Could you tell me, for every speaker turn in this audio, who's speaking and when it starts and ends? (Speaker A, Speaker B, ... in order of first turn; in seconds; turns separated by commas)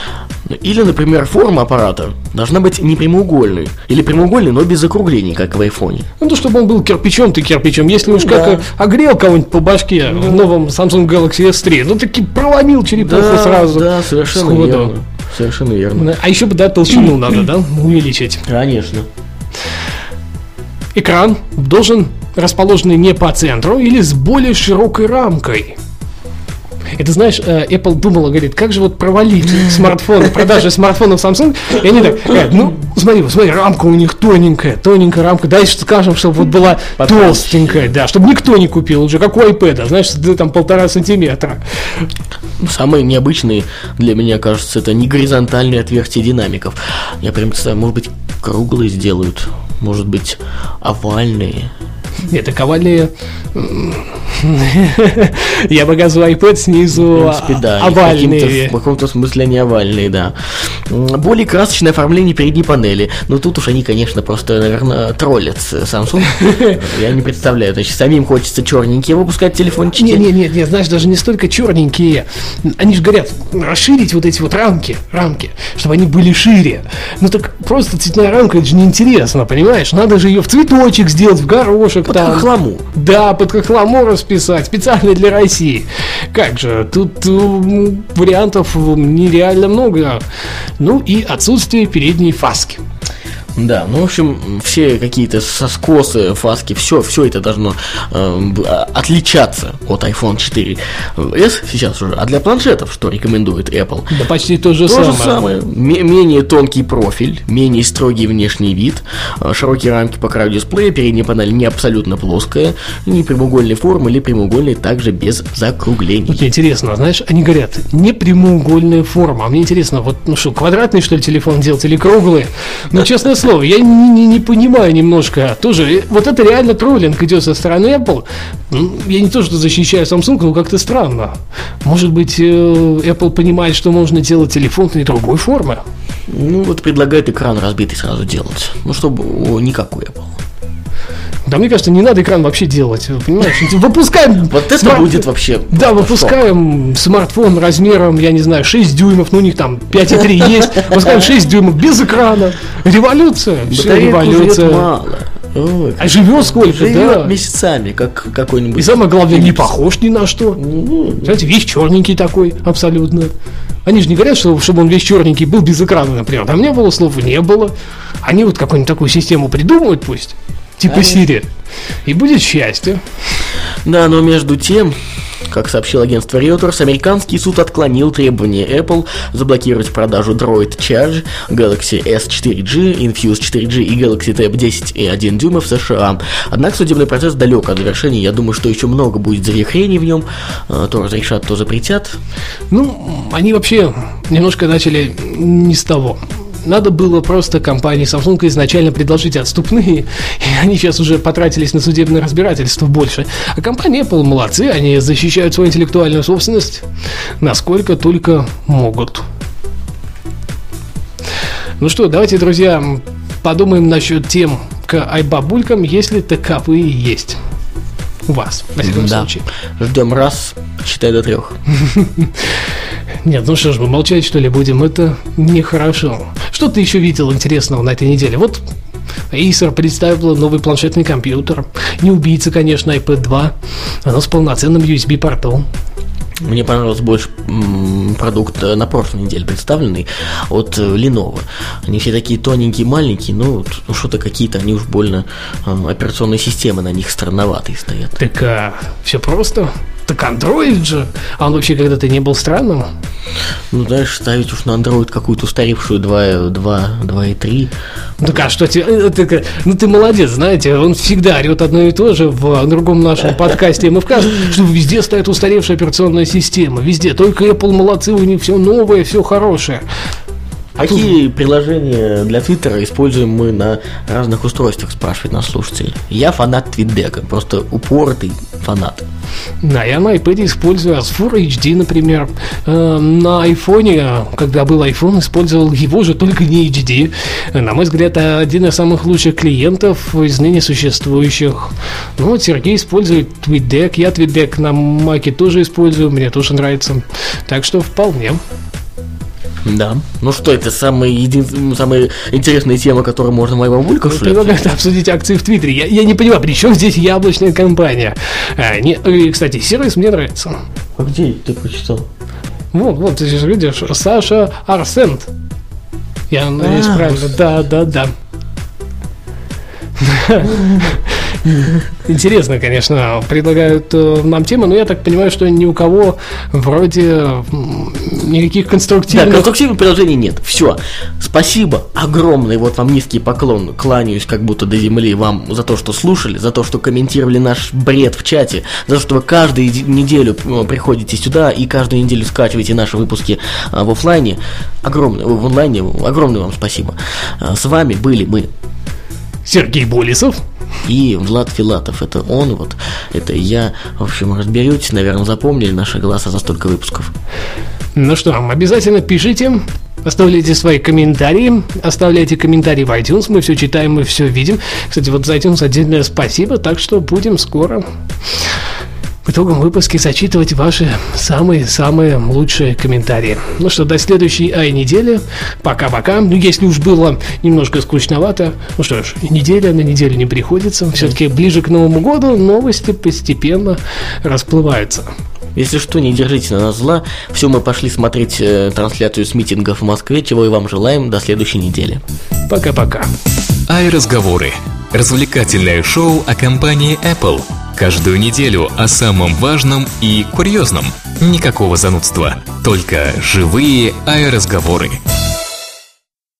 Speaker A: 0.5-6.1, Speaker B: 6.2-14.9, Speaker A: 8.1-8.7, Speaker A: 10.1-10.5, Speaker A: 13.0-16.1, Speaker B: 16.0-18.4, Speaker A: 18.5-19.1, Speaker B: 20.9-25.8, Speaker B: 27.0-41.6, Speaker A: 37.0-37.9, Speaker A: 42.6-51.7, Speaker B: 52.3-58.8, Speaker A: 56.9-70.2, Speaker B: 66.4-66.7, Speaker B: 70.0-90.2, Speaker A: 82.1-82.8, Speaker B: 90.8-92.8, Speaker A: 93.6-104.1, Speaker B: 104.1-105.5, Speaker A: 104.8-116.4, Speaker B: 116.3-135.8, Speaker A: 136.3-140.4, Speaker B: 141.5-154.9, Speaker A: 144.5-146.4, Speaker A: 150.8-151.2, Speaker A: 153.7-159.7, Speaker B: 156.0-157.3, Speaker B: 158.8-160.6, Speaker A: 160.6-161.4, Speaker B: 161.2-163.3, Speaker B: 163.9-167.7, Speaker B: 168.2-171.5, Speaker A: 170.9-171.2, Speaker B: 172.1-173.0, Speaker A: 173.8-175.0, Speaker A: 175.5-192.2, Speaker B: 192.7-206.8, Speaker B: 207.4-209.3, Speaker B: 211.8-217.4, Speaker B: 218.3-219.5, Speaker A: 218.8-221.6, Speaker B: 221.8-222.3, Speaker B: 223.2-228.6, Speaker B: 229.3-235.7, Speaker A: 236.4-248.2, Speaker B: 248.2-252.9, Speaker A: 253.7-257.7, Speaker B: 258.2-269.8, Speaker A: 270.8-279.0, Speaker B: 270.8-271.1, Speaker B: 279.6-298.4, Speaker A: 299.6-304.6, Speaker B: 304.1-310.6, Speaker A: 311.0-312.1, Speaker B: 312.7-315.3, Speaker B: 316.3-318.1, Speaker A: 316.6-317.3, Speaker B: 320.0-329.5, Speaker A: 329.1-348.5, Speaker B: 349.5-350.4, Speaker A: 350.9-357.1, Speaker B: 358.0-367.8, Speaker B: 369.2-385.1, Speaker A: 385.6-392.0, Speaker B: 392.5-393.1, Speaker C: 393.7-405.0